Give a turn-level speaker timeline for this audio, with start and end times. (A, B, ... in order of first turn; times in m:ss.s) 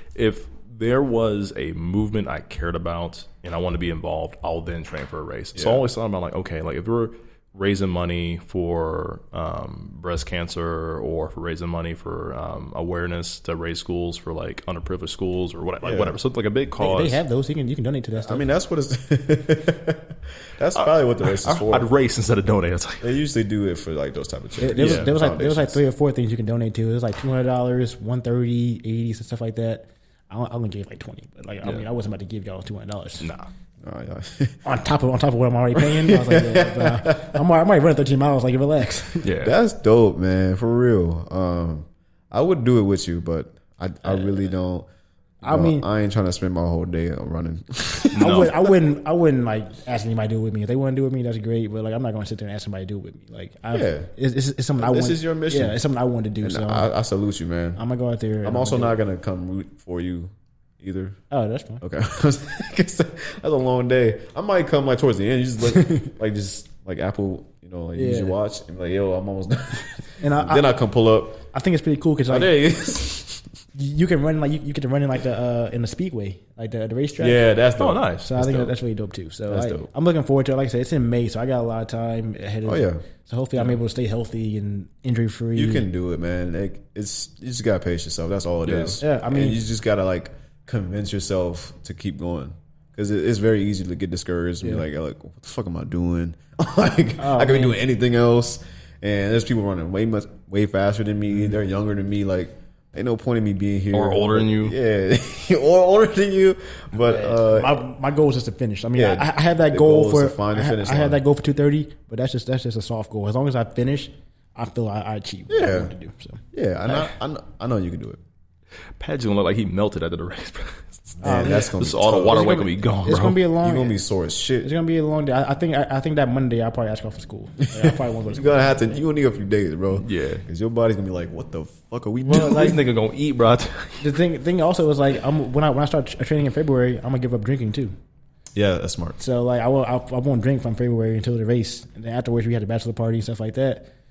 0:00.1-0:17.2 A
0:05.5-0:05.8 B
0:15.8-0:16.2 B
0:16.8-0:18.4 C
0:18.2-0:21.9 B
0:20.7-0:23.1 A
0:23.0-0:25.8 B
0:24.6-0:33.3 C
0:24.8-0:25.1 A
0:33.2-0:33.5 A
0:33.8-0:34.6 B
0:34.6-0:39.2 C
0:35.7-0:37.4 B
0:39.2-0:39.5 A
0:39.4-0:44.9 B
0:44.0-0:44.4 C
0:45.4-0:45.8 C
0:45.4-0:48.7 B
0:48.1-0:48.5 A
0:48.2-0:56.9 C
0:53.7-0:54.1 B
0:54.8-0:55.8 B
0:56.4-0:57.8 B
0:57.8-0:58.9 C
0:58.4-1:01.2 B
1:01.3-1:01.8 C
1:01.8-1:11.4 B
1:05.6-1:06.0 C
1:08.0-1:08.3 C
1:10.2-1:10.7 C
1:11.5-1:12.6 C
1:12.3-1:13.5 B
1:13.7-1:17.5 C
1:17.2-1:18.7 B
1:17.8-1:18.6 A
1:18.2-1:25.8 C
1:19.5-1:19.9 B
1:22.6-1:23.0 B
1:25.5-1:47.8 B
1:28.6-1:29.0 A
1:29.0-1:29.6 C
1:37.2-1:37.8 C
1:43.9-1:44.8 A
1:47.0-1:57.0 C
1:48.9-1:51.2 B
1:55.5-1:55.9 B
1:56.5-1:58.2 B
1:59.0-2:03.4 A
2:01.2-2:01.7 C
2:01.2-2:02.8 B
2:02.3-2:04.0 C
2:03.5-2:04.7 B
2:04.6-2:08.9 C
2:07.8-2:12.8 B
2:09.9-2:10.4 A
2:12.3-2:14.1 A
2:12.3-2:12.7 C
2:14.0-2:17.9 C
2:18.5-2:19.2 B
2:19.2-2:23.9 C